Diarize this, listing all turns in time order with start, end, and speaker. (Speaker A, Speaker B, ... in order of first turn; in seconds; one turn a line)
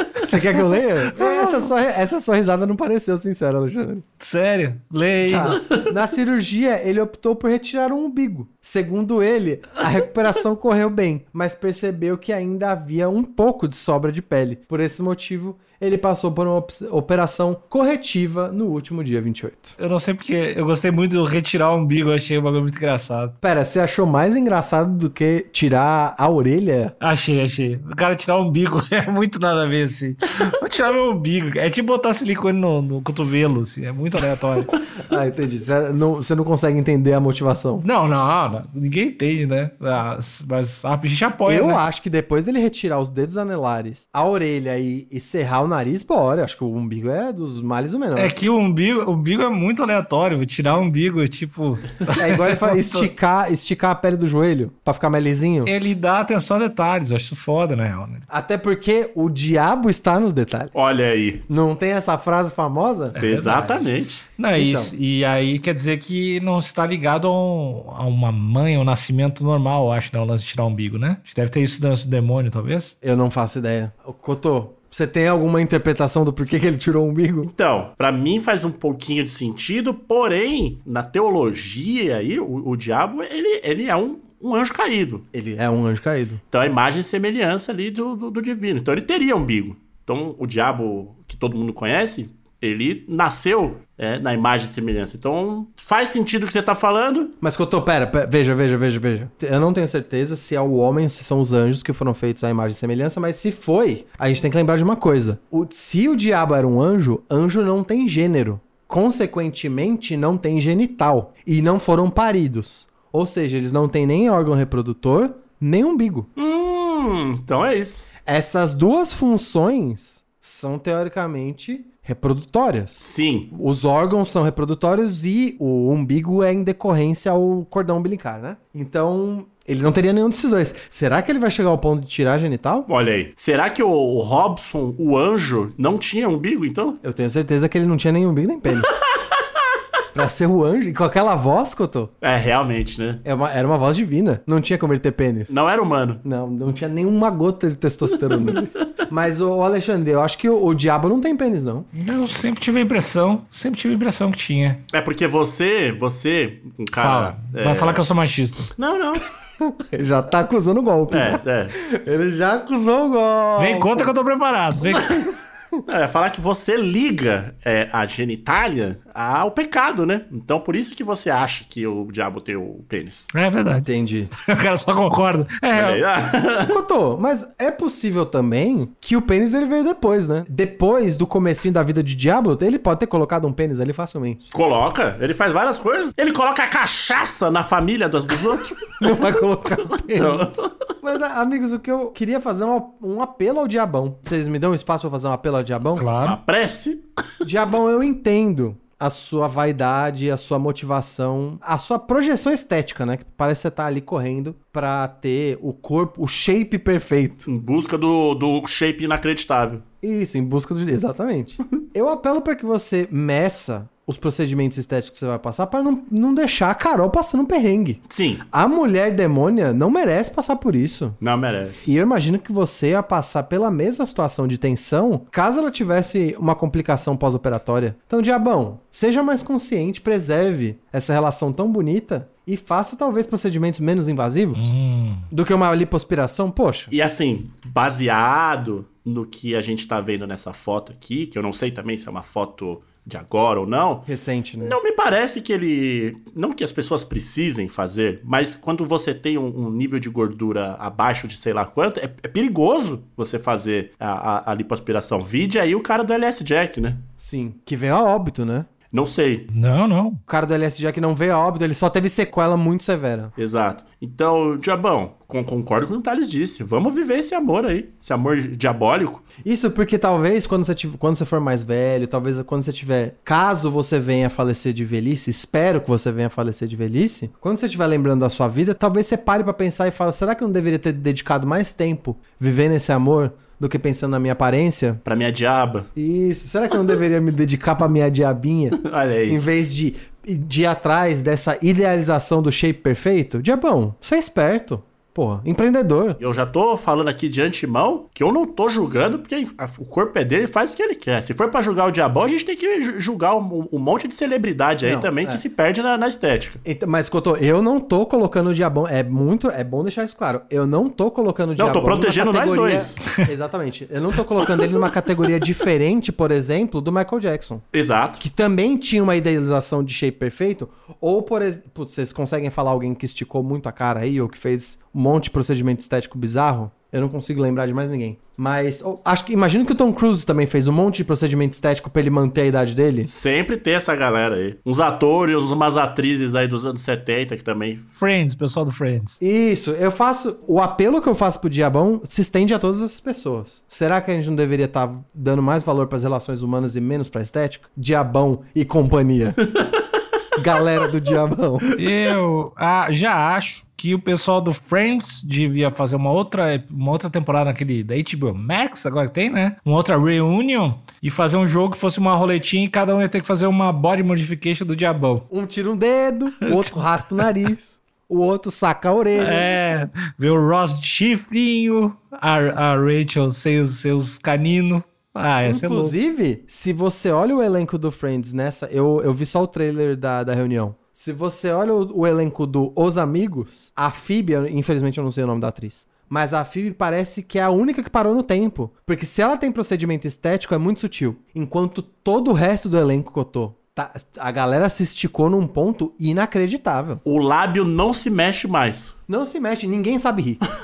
Speaker A: 0.2-4.0
Speaker B: 4.2-5.6
Speaker A: 5.2-19.7
Speaker B: 19.8-23.3
Speaker A: 23.4-26.9
Speaker B: 27.0-34.8
Speaker A: 35.0-37.8
Speaker B: 37.8-41.8
Speaker A: 41.5-48.3
Speaker B: 48.1-53.1
Speaker A: 52.1-55.7
Speaker B: 55.6-58.3
Speaker A: 58.3-60.7
Speaker C: 60.7-61.4
Speaker A: 61.5-63.2
Speaker B: 63.1-72.9
Speaker C: 63.2-64.2
Speaker A: 64.5-64.9
Speaker A: 73.0-77.5
Speaker C: 77.5-85.2
Speaker A: 85.3-86.4
Speaker C: 86.5-97.3
Speaker A: 97.4-116.3
Speaker C: 116.3-118.1
Speaker A: 118.2-132.9
Speaker C: 123.0-123.5
Speaker C: 132.9-137.0
Speaker A: 137.0-138.9
Speaker A: 140.1-142.1
Speaker C: 142.2-143.2
Speaker A: 143.2-145.6
Speaker C: 145.5-146.2
Speaker A: 146.2-151.9
Speaker C: 148.3-148.6
Speaker B: 151.9-154.8
Speaker C: 154.9-158.0
Speaker B: 157.0-158.7
Speaker C: 158.8-159.3
Speaker A: 159.6-164.1
Speaker C: 161.1-161.8
Speaker B: 163.6-165.2
Speaker C: 165.8-173.3
Speaker B: 173.3-176.0
Speaker A: 173.8-174.3
Speaker C: 175.7-176.8
Speaker A: 176.7-184.5
Speaker C: 184.5-189.0
Speaker A: 189.0-196.1
Speaker C: 190.1-190.7
Speaker B: 195.9-196.4
Speaker C: 196.2-197.0
Speaker A: 197.4-207.4
Speaker C: 207.4-209.8
Speaker A: 210.0-221.2
Speaker C: 218.1-218.4
Speaker C: 221.2-221.9
Speaker A: 221.8-234.8
Speaker B: 234.6-235.3
Speaker A: 235.3-236.9
Speaker C: 236.9-244.1
Speaker A: 244.1-244.8
Speaker C: 244.6-257.1
Speaker A: 257.2-258.7
Speaker C: 258.9-259.5
Speaker B: 259.5-260.2
Speaker A: 260.3-263.3
Speaker C: 263.4-269.2
Speaker A: 269.4-285.0
Speaker C: 285.0-285.9
Speaker A: 285.9-296.2
Speaker C: 288.8-289.4
Speaker C: 296.2-306.6
Speaker A: 304.8-305.4
Speaker A: 306.6-317.6
Speaker C: 311.6-313.0
Speaker C: 317.7-318.2
Speaker A: 318.2-333.1
Speaker C: 333.1-337.8
Speaker B: 337.9-339.2
Speaker A: 339.2-349.4
Speaker A: 350.4-351.7
Speaker B: 351.8-365.3
Speaker A: 365.3-369.6
Speaker B: 366.4-366.7
Speaker B: 369.1-375.9
Speaker A: 375.4-397.0
Speaker C: 397.0-398.9
Speaker A: 399.1-400.4